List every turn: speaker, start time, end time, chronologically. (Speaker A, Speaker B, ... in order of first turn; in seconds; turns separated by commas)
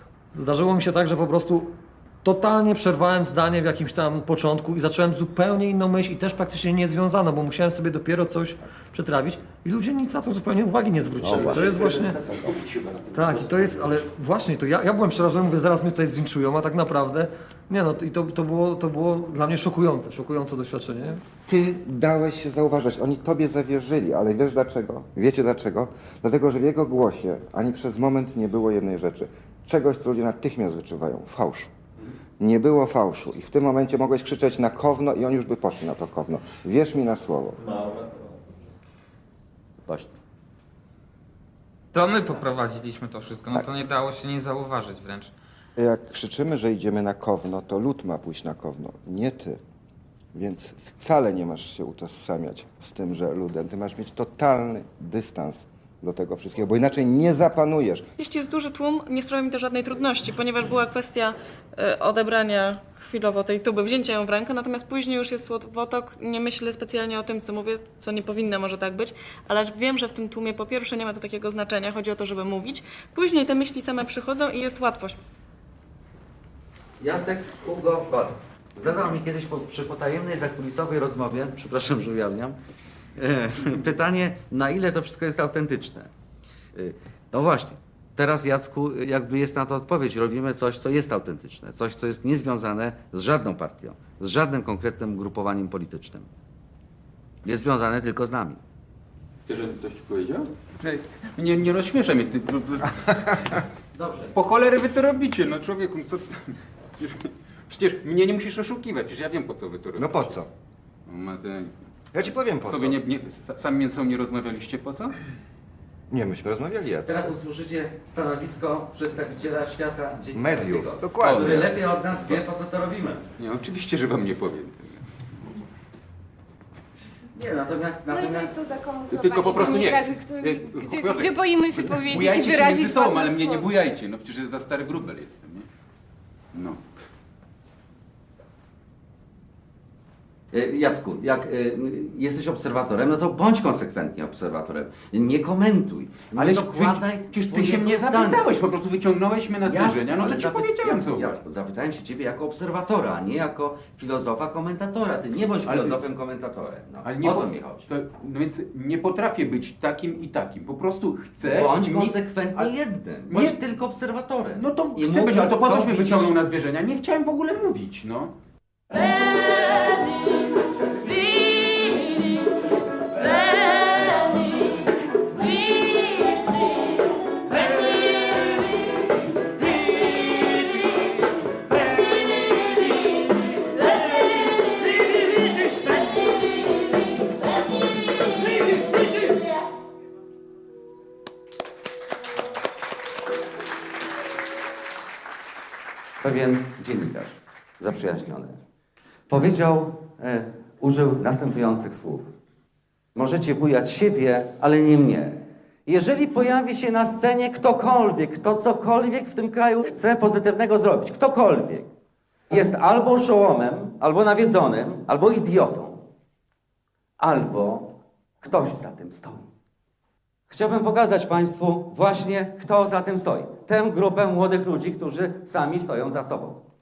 Speaker A: 0.3-12.2, Speaker B: 11.2-11.5, Speaker C: 11.4-14.0, Speaker A: 13.1-21.2, Speaker D: 21.5-31.7, Speaker D: 32.4-37.6, Speaker B: 39.9-40.2, Speaker E: 41.9-45.3, Speaker D: 45.8-49.6, Speaker D: 50.3-58.0, Speaker F: 58.2-75.2, Speaker B: 77.0-82.6, Speaker B: 83.2-86.1, Speaker B: 86.8-96.3, Speaker B: 97.5-98.6, Speaker C: 99.5-103.6, Speaker B: 103.9-104.4, Speaker C: 104.3-110.3, Speaker D: 110.0-110.5, Speaker C: 111.1-111.8, Speaker D: 112.1-113.0, Speaker C: 112.6-115.1, Speaker D: 116.1-117.3, Speaker B: 117.0-123.2, Speaker D: 120.3-121.6, Speaker C: 121.2-122.4, Speaker C: 123.4-125.1, Speaker B: 127.3-128.6, Speaker G: 128.1-133.7, Speaker C: 129.1-135.7, Speaker C: 136.5-136.8, Speaker B: 140.5-148.5, Speaker C: 146.4-151.4, Speaker B: 149.7-157.9, Speaker C: 155.6-156.0, Speaker C: 157.0-162.7, Speaker B: 161.4-166.3, Speaker C: 163.3-163.6, Speaker C: 164.6-168.3, Speaker B: 196.2-198.6, Speaker B: 199.3-202.3, Speaker B: 203.1-211.9, Speaker B: 212.5-216.0, Speaker B: 217.2-219.5, Speaker B: 220.5-226.6